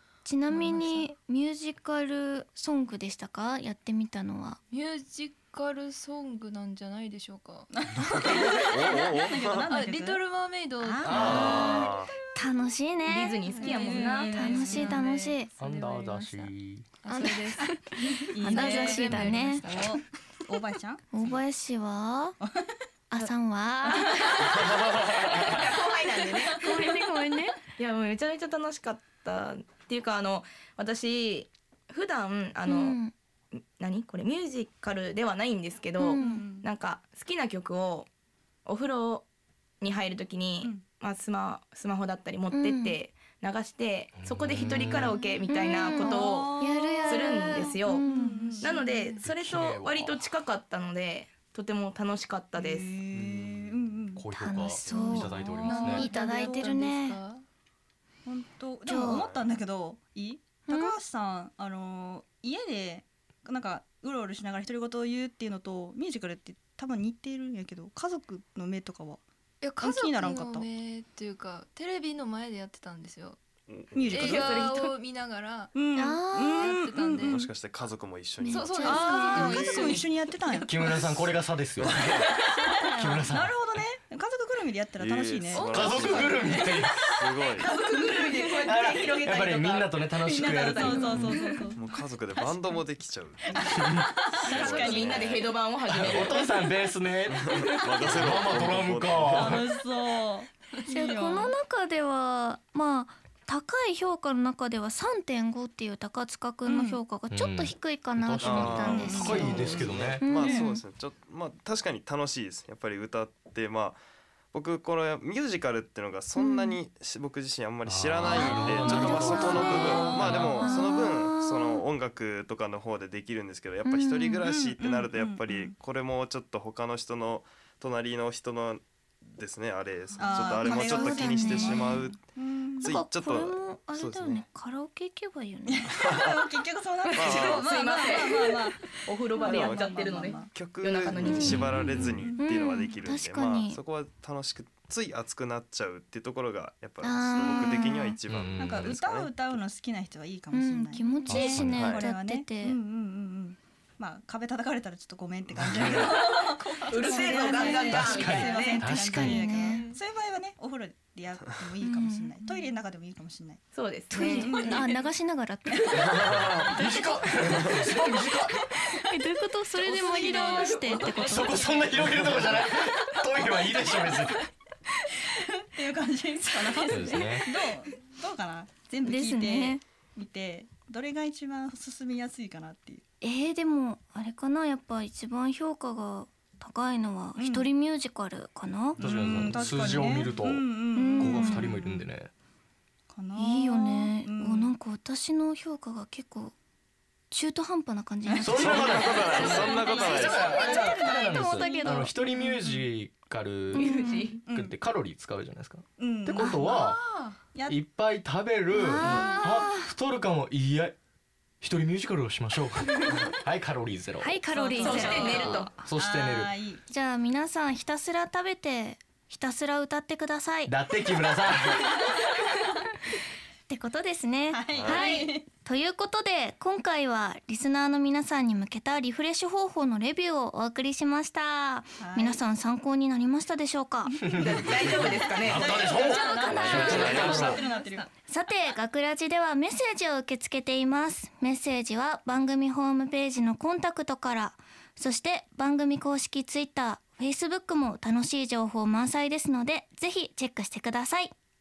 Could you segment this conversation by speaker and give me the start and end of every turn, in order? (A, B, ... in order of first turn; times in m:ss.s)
0:00.2-0:04.6 A
0:00.5-0:01.0 B
0:04.7-0:07.7 B
0:07.8-0:10.2 C
0:08.0-0:09.7 D
0:08.2-0:08.7 B
0:09.7-0:11.8 B
0:10.8-0:12.7 C
0:11.0-0:11.9 E
0:11.1-0:12.2 D
0:11.4-0:11.7 A
0:12.4-0:15.5 A
0:13.1-0:14.7 F
0:13.5-0:16.5 B
0:13.6-0:15.0 C
0:15.6-0:16.9 E
0:17.0-0:20.0 B
0:17.1-0:19.7 A
0:18.0-0:21.4 C
0:21.1-0:22.4 A
0:22.5-0:23.3 C
0:23.1-0:24.5 A
0:23.9-0:26.8 C
0:24.4-0:27.0 F
0:26.6-0:27.6 A
0:27.8-0:33.0 F
0:32.7-0:33.1 A
0:33.6-0:38.1 F
0:36.0-0:36.5 A
0:36.1-0:36.7 C
0:38.7-0:39.3 F
0:39.8-0:53.0 F
0:42.5-0:43.0 A
0:44.2-0:45.2 E
0:45.5-0:48.8 A
0:45.9-0:48.9 C
0:49.2-0:50.3 E
0:52.6-0:54.2 C
0:53.1-0:54.0 D
0:54.2-0:56.1 E
0:54.4-0:57.2 A
0:54.9-0:56.8 C
0:55.7-0:57.4 B
0:58.3-1:09.2 C
0:58.9-0:59.2 A
0:59.0-0:59.5 D
1:00.7-1:01.0 A
1:09.6-1:13.4 B
1:09.8-1:10.7 C
1:13.7-1:14.5 D
1:13.9-1:14.8 C
1:14.1-1:15.8 B
1:14.3-1:14.9 F
1:15.7-1:17.5 C
1:16.0-1:16.7 A
1:16.6-1:17.4 B
1:17.2-1:20.0 D
1:18.4-1:19.7 A
1:18.5-1:20.6 B
1:18.8-1:21.2 C
1:20.7-1:22.3 E
1:21.8-1:22.3 D
1:22.0-1:28.7 C
1:23.0-1:23.6 E
1:25.0-1:27.7 D
1:25.5-1:26.7 B
1:25.7-1:27.0 E
1:27.6-1:31.2 F
1:28.6-1:31.4 E
1:30.2-1:32.8 C
1:31.7-1:35.5 D
1:33.5-1:35.4 C
1:34.6-1:36.5 F
1:35.9-1:39.7 E
1:37.3-1:39.7 D
1:39.3-1:41.5 C
1:40.9-1:50.7 A
1:46.7-1:47.0 C
1:47.3-1:50.2 E
1:48.4-1:54.0 D
1:49.0-1:50.8 C
1:54.5-2:12.2 D
1:56.4-1:56.8 A
1:57.8-2:00.7 E
1:58.3-2:01.8 A
2:03.8-2:04.4 A
2:04.4-2:05.8 C
2:10.2-2:13.0 C
2:10.2-2:12.1 A
2:12.8-2:14.4 D
2:12.8-2:15.9 A
2:15.7-2:20.5 C
2:15.9-2:16.4 D
2:17.1-2:21.6 F
2:17.1-2:17.7 D
2:19.4-2:29.6 D
2:21.3-2:21.6 C
2:21.4-2:22.3 E
2:22.4-2:23.8 A
2:27.0-2:28.2 A
2:28.3-2:29.0 E
2:28.6-2:44.9 C
2:30.5-2:32.8 A
2:31.3-2:32.0 E
2:31.7-2:32.0 D
2:35.7-2:36.1 D
2:36.9-2:38.9 F
2:37.0-2:38.0 A
2:37.9-2:39.7 E
2:38.5-2:39.9 A
2:41.8-2:42.7 A
2:43.7-2:44.9 F
2:44.1-2:47.0 A
2:45.8-2:46.2 C
2:46.0-2:48.6 E
2:46.1-2:46.7 D
2:48.8-2:51.7 A
2:49.9-2:51.2 B
2:50.1-2:51.1 C
2:51.1-2:54.5 E
2:55.2-3:03.0 C
2:56.7-2:57.7 A
2:56.9-2:57.5 E
2:59.0-2:59.8 A
3:03.2-3:09.4 A
3:07.4-3:07.7 C
3:09.0-3:12.0 C
3:09.0-3:12.3 E
3:11.0-3:11.7 A
3:13.1-3:14.7 C
3:13.4-3:16.5 A
3:17.3-3:22.1 A
3:18.3-3:22.8 C
3:18.4-3:23.9 E
3:18.6-3:20.6 D
3:23.7-3:24.4 F
3:23.8-3:24.3 A
3:24.4-3:24.8 C
3:24.5-3:27.0 E
3:26.0-3:27.8 C
3:26.4-3:26.7 A
3:27.7-3:31.0 E
3:28.7-3:29.9 A
3:28.9-3:29.4 C
3:31.6-3:34.4 E
3:34.2-3:35.7 A
3:34.5-3:36.8 C
3:34.8-3:35.8 F
3:35.8-3:36.5 E
3:36.9-3:40.8 A
3:40.7-3:42.0 E
3:43.7-3:54.2 A
3:44.5-3:45.5 C
3:52.0-3:52.4 C
3:54.3-3:56.6 F
3:54.4-3:58.1 C
3:54.4-3:57.6 E
3:55.8-3:57.5 A
3:56.6-3:57.6 D
3:58.3-4:11.3 A